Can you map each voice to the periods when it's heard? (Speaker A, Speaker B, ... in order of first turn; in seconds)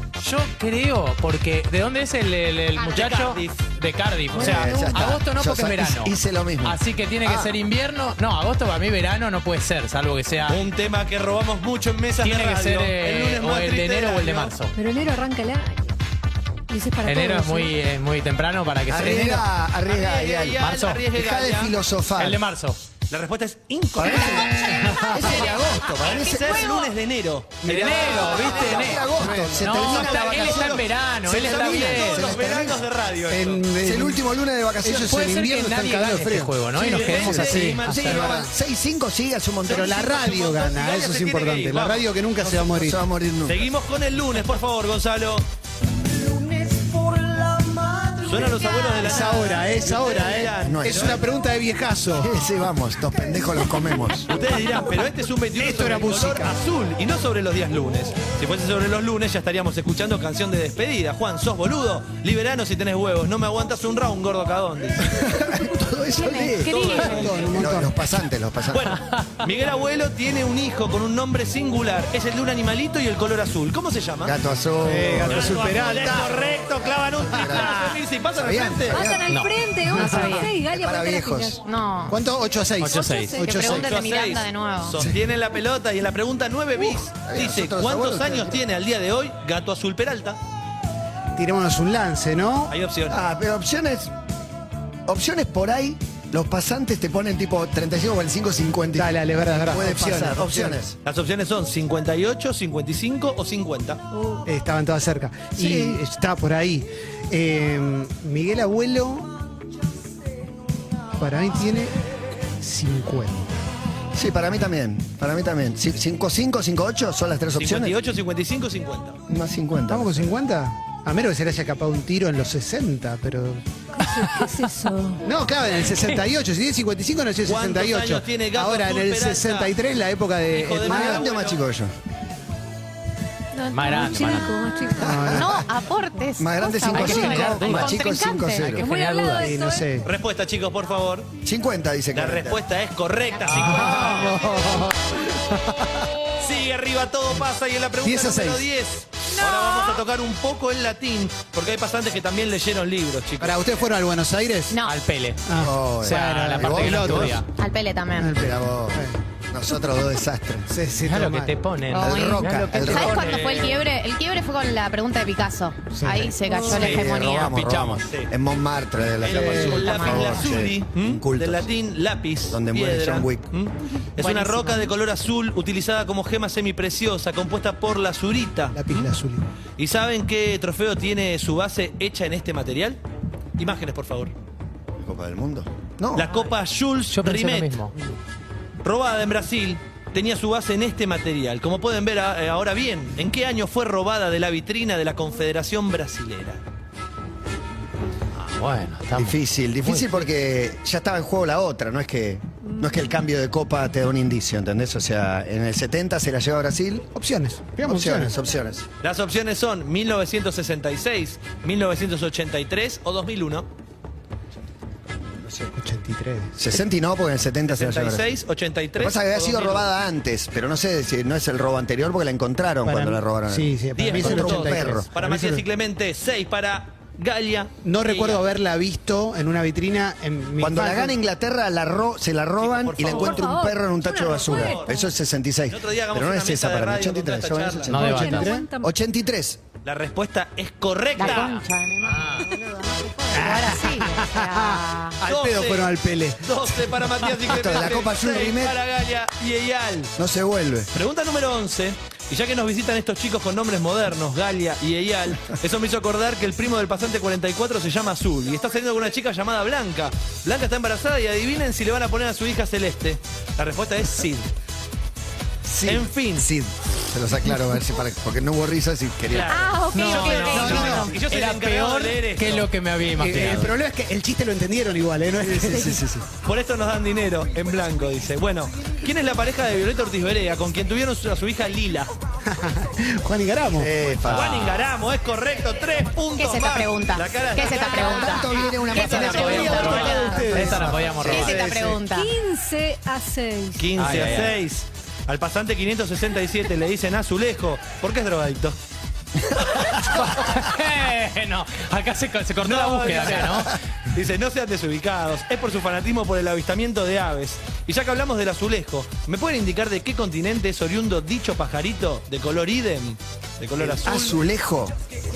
Speaker A: 0.2-6.1, 6.6-10.6, 12.2-14.7, 17.0-19.4, 20.6-21.0, 22.2-22.8, 27.7-32.4, 35.1-38.1, 79.3-79.5, 82.8-83.4, 133.7-134.5, 136.9-138.0, 138.8-139.5, 154.8-155.4, 156.0-157.4, 161.0-163.7, 187.1-187.9, 198.3-200.1, 237.9-238.5, 241.2-242.5, 269.9-273.7, 284.3-284.8, 289.1-291.8, 294.0-294.6, 300.0-303.8
Speaker B: 2.8-3.1, 24.3-26.9, 48.4-49.5, 66.1-67.2, 79.9-80.5, 81.6-82.2, 83.4-85.0, 134.0-134.4, 135.3-138.8, 149.3-150.0, 154.7-155.0, 157.6-158.4, 161.9-167.7, 169.6-170.4, 174.2-174.9, 241.2-245.2, 269.5-271.1, 286.3-290.5, 291.2-292.3
Speaker C: 2.9-3.7, 4.3-4.9, 10.5-14.5, 19.9-21.7, 23.1-24.8, 25.9-28.9, 29.8-33.6, 36.8-38.4, 39.7-42.1, 43.5-45.5, 48.2-51.2, 54.3-65.1, 66.7-67.6, 68.7-74.3, 75.2-79.2, 83.7-90.4, 92.7-93.2, 101.0-104.0, 117.6-119.2, 127.4-129.7, 130.5-131.6, 140.0-141.3, 142.1-144.6, 146.4-153.9, 163.2-163.8, 168.0-168.3, 169.2-179.1, 179.8-183.0, 183.6-184.3, 186.1-187.8, 188.8-196.6, 209.0-213.7, 217.7-219.9, 223.9-228.4, 232.6-233.6, 234.4-235.0, 235.7-237.9, 239.8-241.6, 245.2-250.1, 250.9-264.5, 265.8-266.5, 269.3-272.7, 276.4-282.1, 284.3-290.3, 293.8-298.8, 302.6-314.4
Speaker D: 4.3-7.5, 18.9-20.6, 21.1-22.4, 24.0-26.8, 27.9-32.8, 33.8-35.2, 36.8-40.1, 42.4-43.7, 50.6-51.2, 52.1-54.3, 65.0-68.9, 74.2-76.0, 77.2-79.3, 80.5-81.6, 87.2-88.6, 93.1-94.1, 95.1-101.0, 105.5-106.0, 114.1-118.0, 119.3-120.3, 130.8-131.9, 135.0-135.6, 136.4-138.8, 141.4-142.6, 155.6-157.4, 158.3-160.7, 161.9-163.3, 166.7-171.7, 172.5-173.5, 185.0-186.3, 199.1-207.1, 207.8-208.9, 215.2-215.7, 216.6-218.2, 219.0-225.1, 230.6-239.6, 247.4-248.8, 250.2-250.9, 265.6-269.6, 275.4-276.3, 283.7-284.8, 287.6-291.9, 313.8-314.9
Speaker E: 14.7-15.9, 16.7-17.8, 78.9-81.6, 82.8-83.8, 124.0-125.2, 133.7-135.3, 138.8-139.9, 166.4-167.0, 233.0-235.0, 237.9-238.9, 292.0-294.0
Speaker F: 24.6-25.4, 27.6-29.8, 33.3-34.2, 34.8-38.5, 39.6-43.0, 49.0-52.3, 55.5-56.5, 66.9-67.9, 74.8-76.3, 77.4-77.8, 79.9-80.4, 82.1-83.9, 91.3-92.7, 99.0-100.8, 104.5-109.3, 111.2-111.9, 112.6-113.5, 119.9-123.6, 125.2-131.2, 135.0-135.5, 139.4-140.1, 143.5-146.1, 148.0-148.7, 153.4-154.8, 155.5-157.4, 158.2-159.2, 160.7-161.6, 165.9-166.3, 169.3-169.8, 178.7-179.5, 207.1-208.3, 215.8-216.5, 222.8-225.6, 227.8-231.2, 238.0-238.7, 243.3-246.7, 270.5-271.2, 273.2-276.0, 282.5-283.9, 288.7-291.1